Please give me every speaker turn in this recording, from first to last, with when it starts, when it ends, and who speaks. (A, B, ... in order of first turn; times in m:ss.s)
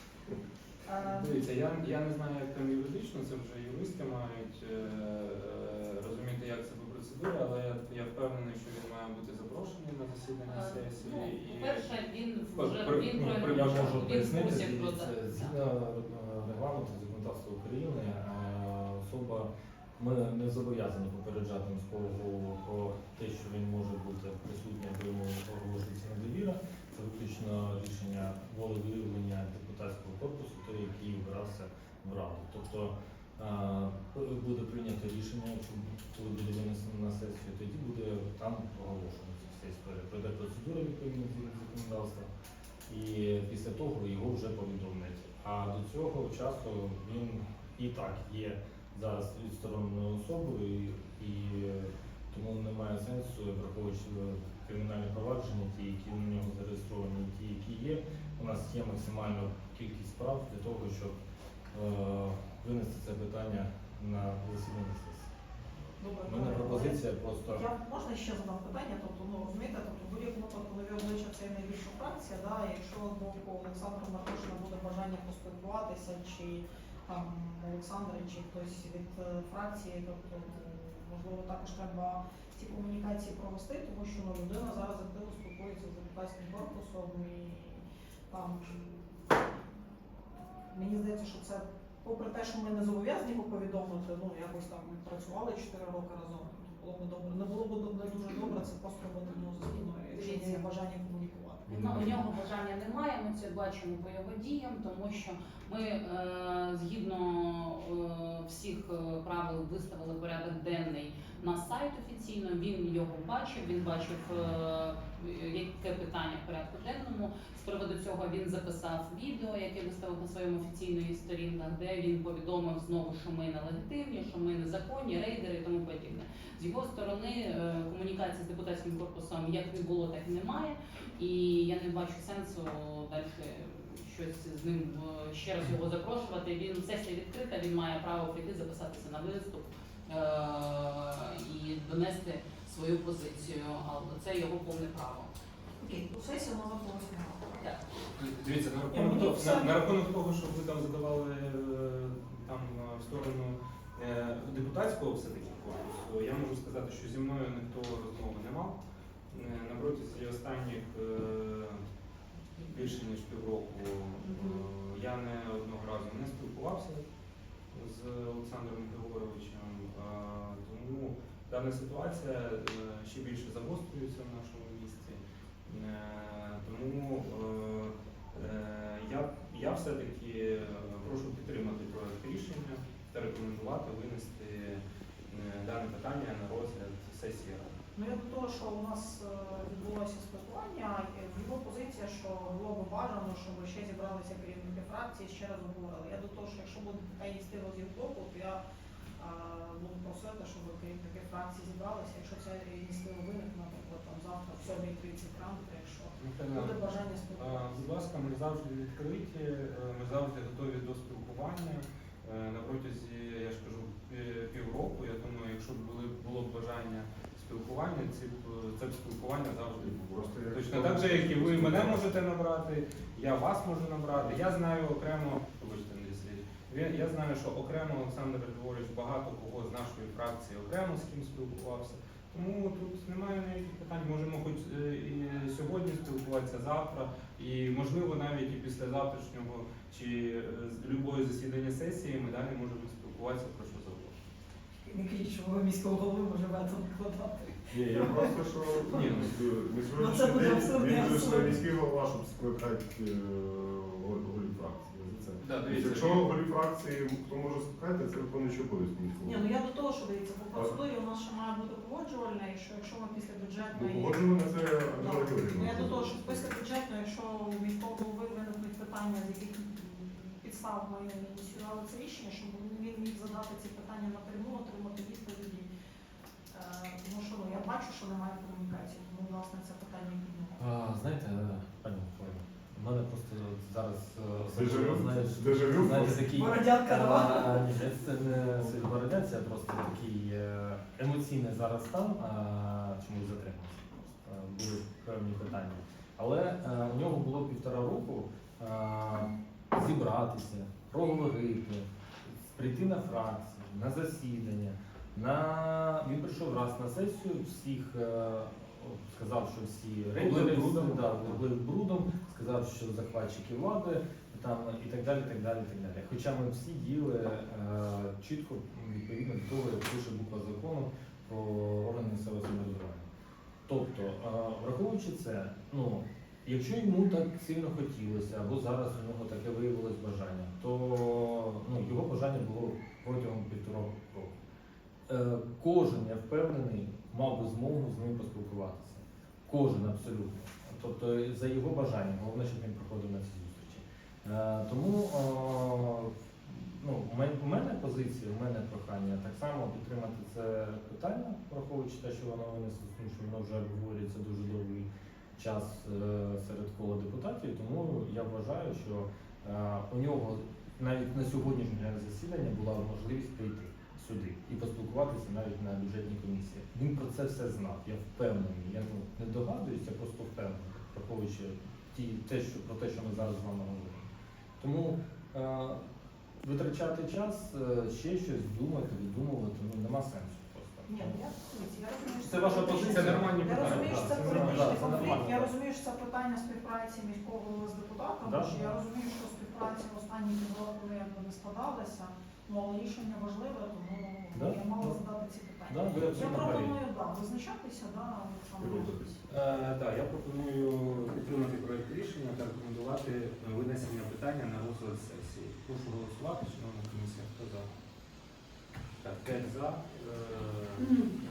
0:00.8-0:01.4 A
0:01.0-0:11.9 B
0:10.4-0:15.5 C
0:12.5-0:14.2 B
0:13.5-0:42.3 D
0:42.9-1:01.2 D
1:01.7-1:05.3 D
1:06.0-1:29.3 A
1:06.3-1:07.6 D
1:30.7-1:41.9 A
1:39.8-1:40.6 C
1:41.7-1:42.2 D
1:41.7-2:25.3 C
2:25.8-2:27.5 A
2:28.2-2:38.8 B
2:28.9-2:29.7 A
2:39.3-2:41.8 B
2:42.6-2:47.0 B
2:44.3-2:44.6 C
2:47.7-3:07.7 B
3:07.9-3:18.6 A
3:19.2-3:27.8 A
3:26.2-3:26.8 B
3:27.4-4:04.2 B
3:39.8-3:42.2 E
4:04.9-4:08.8 A
4:07.8-4:19.4 E
4:08.9-4:09.4 B
4:09.9-4:11.6 A
4:15.4-4:16.3 B
4:19.2-4:35.7 A
4:20.5-4:20.8 E
4:23.7-4:26.5 E
4:36.5-4:40.6 A
4:40.6-5:23.1 D
4:44.5-4:46.3 E
4:46.4-4:47.7 A
5:10.1-5:11.4 B
5:23.6-5:34.4 D
5:35.1-6:14.1 D
6:14.6-6:15.8 D
6:16.4-6:21.2 D
6:20.9-6:39.1 A
6:22.2-6:25.4 B
6:22.9-6:25.5 D
6:28.2-6:28.8 D
6:34.3-6:35.0 D
6:35.7-6:36.8 D
6:35.9-6:36.4 B
6:38.6-6:39.2 E
6:39.3-6:47.7 B
6:49.0-6:51.0 B
6:50.8-6:51.1 C